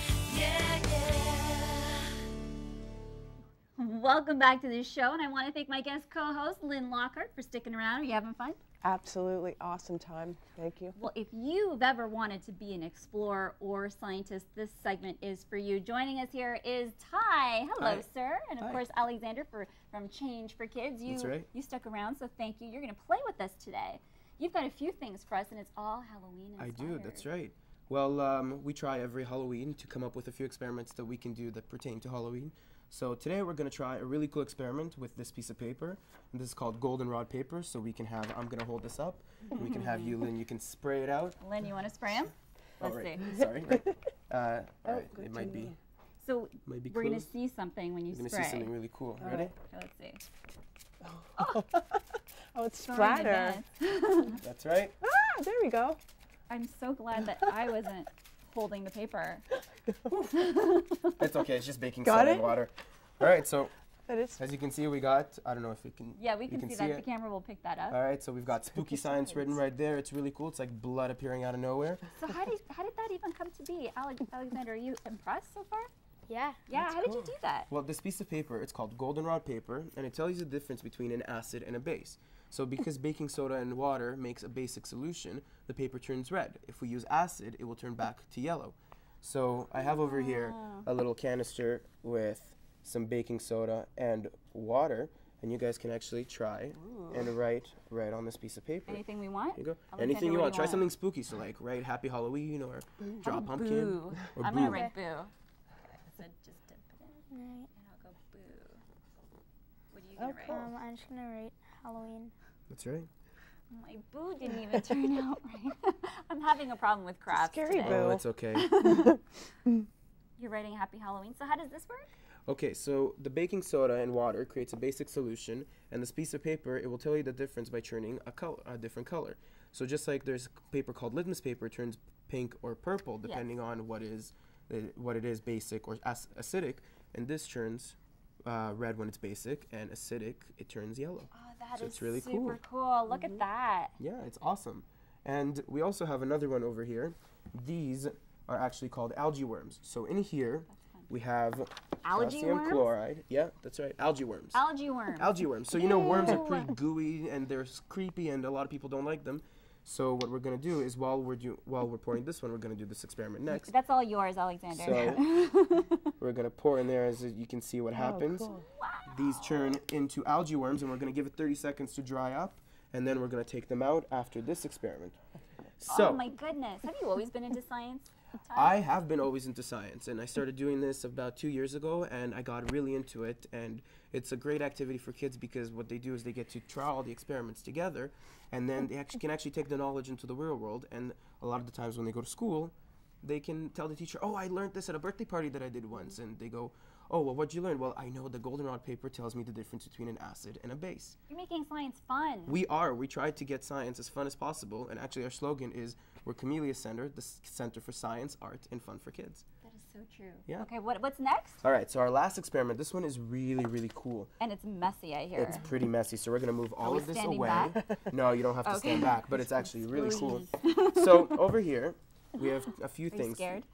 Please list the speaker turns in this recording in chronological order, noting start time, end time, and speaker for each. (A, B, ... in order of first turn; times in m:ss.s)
0:00.3-0:02.0 A
0:03.8-0:08.6 A
0:08.8-0:10.9 B
0:11.0-0:27.2 A
0:17.8-0:18.0 C
0:21.1-0:21.5 C
0:26.6-0:41.4 C
0:39.5-0:40.1 A
0:41.4-0:43.2 A
0:42.8-0:45.8 C
0:44.8-0:45.8 B
0:46.2-0:48.7 A
0:46.6-0:47.3 C
0:48.1-0:49.5 C
0:49.2-0:49.5 B
0:49.2-0:50.2 A
0:51.0-0:52.0 B
0:52.5-0:53.6 B
0:52.8-0:54.4 A
0:54.4-0:54.9 C
0:55.0-0:56.0 B
0:56.5-0:59.4 A
1:00.2-1:01.2 A
1:01.2-1:03.7 C
1:02.0-1:02.6 B
1:04.1-1:04.4 B
1:04.4-1:07.0 C
1:06.2-1:08.0 A
1:07.9-1:12.0 C
1:09.0-1:09.6 A
1:12.2-1:15.9 A
1:16.3-1:16.6 D
1:16.7-1:17.7 A
1:17.7-1:39.0 C
1:29.9-1:30.8 A
1:36.8-1:37.2 B
1:38.9-1:40.9 A
1:39.5-1:44.9 C
1:43.2-1:45.3 A
1:44.6-1:44.9 D
1:46.0-1:48.8 A
1:47.3-1:47.7 D
1:49.9-1:50.7 A
1:50.2-1:50.7 B
1:50.4-1:52.3 D
1:52.7-1:53.1 C
1:53.7-1:58.0 A
1:57.3-1:58.2 B
1:57.8-1:58.7 C
1:58.5-1:59.2 A
1:58.8-1:59.2 B
2:00.4-2:02.1 A
2:02.5-2:22.6 C
2:21.3-2:23.9 A
2:24.0-2:34.6 C
2:30.7-2:31.1 A
2:32.0-2:32.9 A
2:34.5-2:36.7 A
2:35.2-2:43.7 C
2:43.5-2:46.1 A
2:44.7-2:45.2 C
2:46.2-2:48.6 C
2:47.9-2:48.6 B
2:48.5-2:49.8 A
2:49.1-2:55.2 C
2:55.8-2:56.2 C
2:55.9-2:58.8 A
2:58.5-3:21.2 C
3:21.3-3:22.6 A
3:22.5-3:29.4 C
3:29.6-3:31.6 A
3:31.6-3:34.3 C
3:34.4-3:35.7 A
3:35.3-3:43.6 C
3:36.8-3:37.8 A
3:38.6-3:41.4 A
3:43.1-3:43.6 A